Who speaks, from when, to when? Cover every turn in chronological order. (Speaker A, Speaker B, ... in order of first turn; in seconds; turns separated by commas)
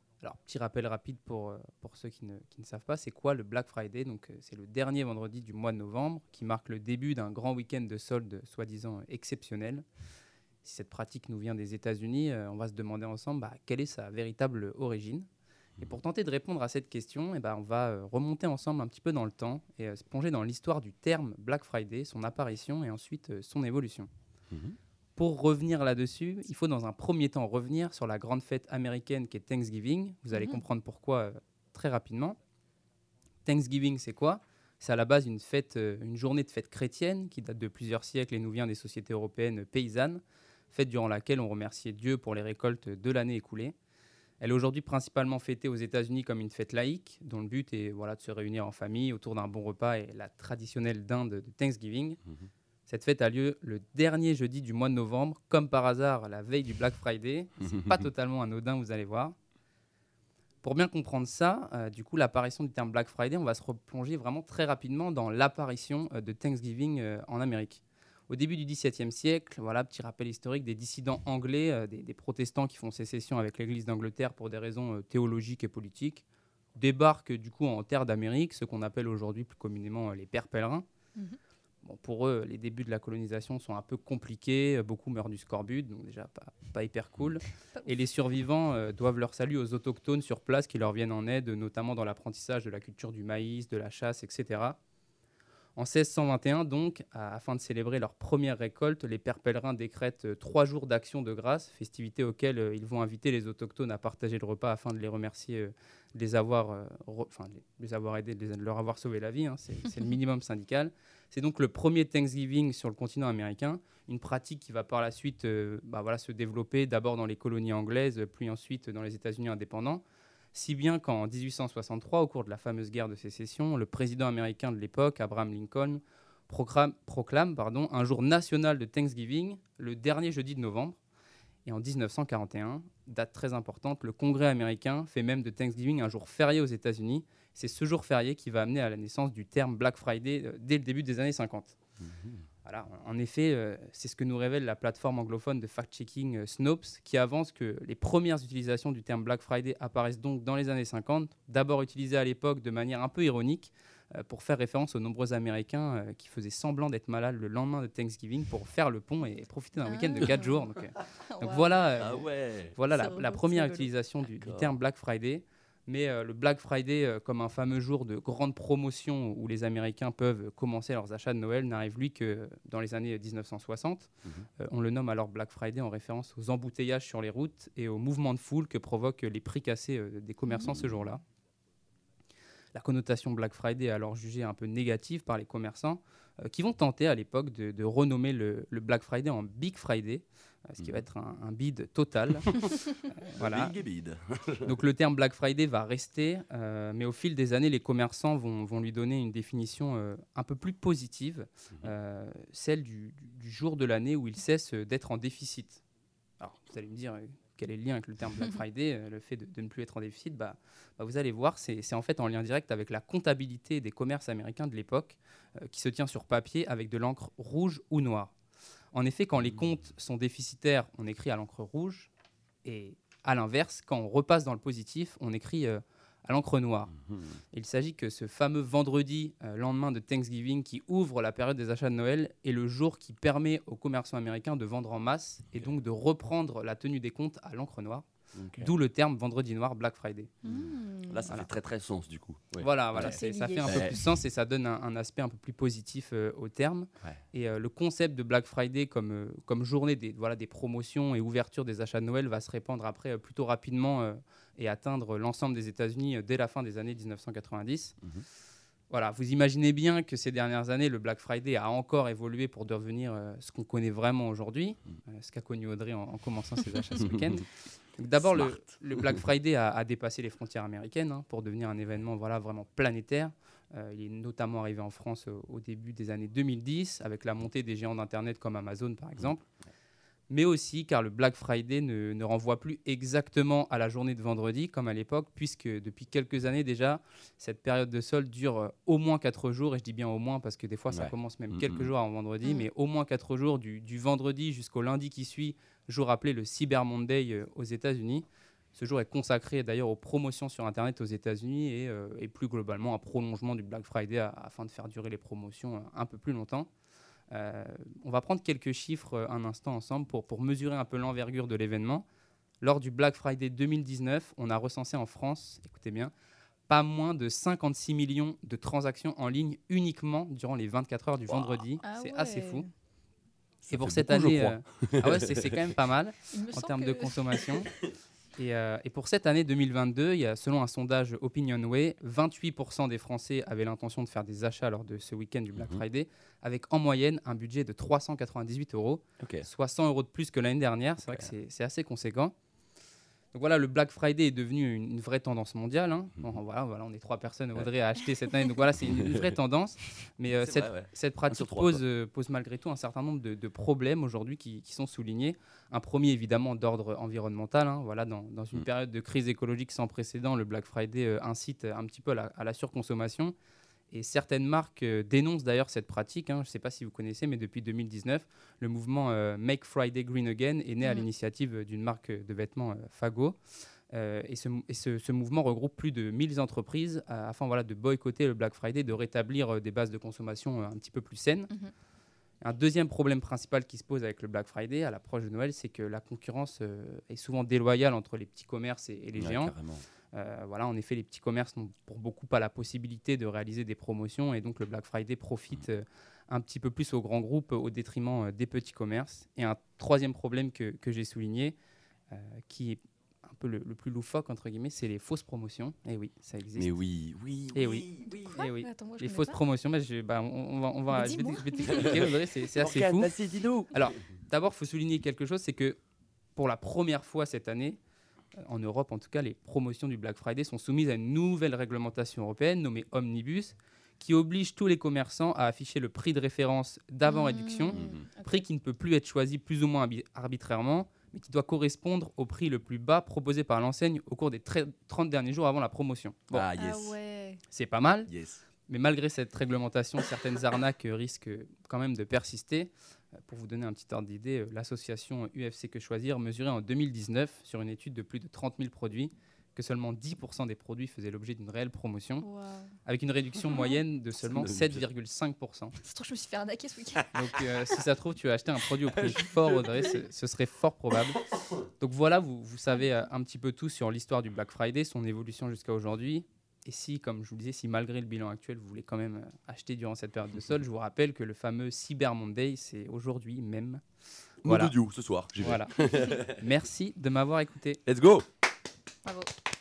Speaker A: 0.2-9.9, Speaker A: 10.6-15.3, Speaker A: 15.8-24.1, Speaker B: 24.5-24.8, Speaker A: 25.2-32.4, Speaker C: 30.3-30.6, Speaker A: 33.5-43.8, Speaker A: 44.4-52.2, Speaker A: 52.9-59.4, Speaker B: 57.7-58.0, Speaker A: 60.6-76.2, Speaker A: 76.8-80.9, Speaker A: 81.8-94.8, Speaker A: 95.8-131.0, Speaker A: 131.7-141.8, Speaker B: 142.0-142.5, Speaker A: 142.7-162.2, Speaker C: 159.8-160.6, Speaker B: 160.2-160.5, Speaker C: 161.3-162.2, Speaker B: 162.0-162.8, Speaker A: 162.8-181.2, Speaker C: 162.9-163.9, Speaker B: 164.4-164.7, Speaker C: 180.5-181.1, Speaker A: 182.7-193.7, Speaker B: 193.4-194.7, Speaker A: 194.7-205.8, Speaker A: 206.4-218.3, Speaker A: 218.9-222.1, Speaker A: 222.7-226.9, Speaker B: 226.9-227.4, Speaker A: 227.5-240.3, Speaker B: 238.3-238.7, Speaker C: 240.4-241.3, Speaker B: 240.4-243.9, Speaker A: 242.6-258.0, Speaker C: 243.0-244.0, Speaker A: 258.9-279.5, Speaker B: 267.0-267.4, Speaker B: 268.2-269.2, Speaker A: 280.3-306.7, Speaker B: 290.9-291.9, Speaker C: 292.4-292.7, Speaker A: 307.3-312.1, Speaker A: 312.6-316.1, Speaker A: 316.7-322.7, Speaker B: 321.3-321.6, Speaker C: 321.8-322.7, Speaker B: 323.6-325.7, Speaker A: 323.7-327.7, Speaker C: 326.3-327.6, Speaker A: 328.4-342.4, Speaker B: 335.5-335.8, Speaker B: 339.2-339.5, Speaker A: 343.3-363.4, Speaker B: 348.9-349.3, Speaker B: 350.4-351.8, Speaker A: 363.9-373.4, Speaker A: 373.9-381.5, Speaker A: 382.4-389.6, Speaker B: 389.1-389.9, Speaker A: 390.1-401.6, Speaker A: 402.1-406.7, Speaker B: 406.6-408.1, Speaker A: 407.5-413.1, Speaker C: 408.1-409.4, Speaker C: 410.9-411.9, Speaker B: 411.7-412.0, Speaker B: 412.6-413.8, Speaker A: 413.7-415.8, Speaker A: 416.4-417.8, Speaker A: 418.4-436.5, Speaker C: 427.1-428.4, Speaker B: 427.7-428.1, Speaker B: 436.3-437.0, Speaker C: 436.6-437.4, Speaker A: 437.5-438.1, Speaker B: 438.1-438.4, Speaker A: 438.7-452.3, Speaker C: 452.2-452.7, Speaker A: 452.9-455.8, Speaker C: 453.5-453.8, Speaker B: 454.2-454.9, Speaker C: 455.8-457.1, Speaker A: 457.1-461.2, Speaker B: 458.9-460.0, Speaker B: 461.4-461.6, Speaker A: 461.8-473.8, Speaker A: 474.4-474.7, Speaker B: 474.4-476.4, Speaker A: 475.4-475.7, Speaker A: 476.2-477.8, Speaker B: 477.9-478.3, Speaker C: 479.1-479.3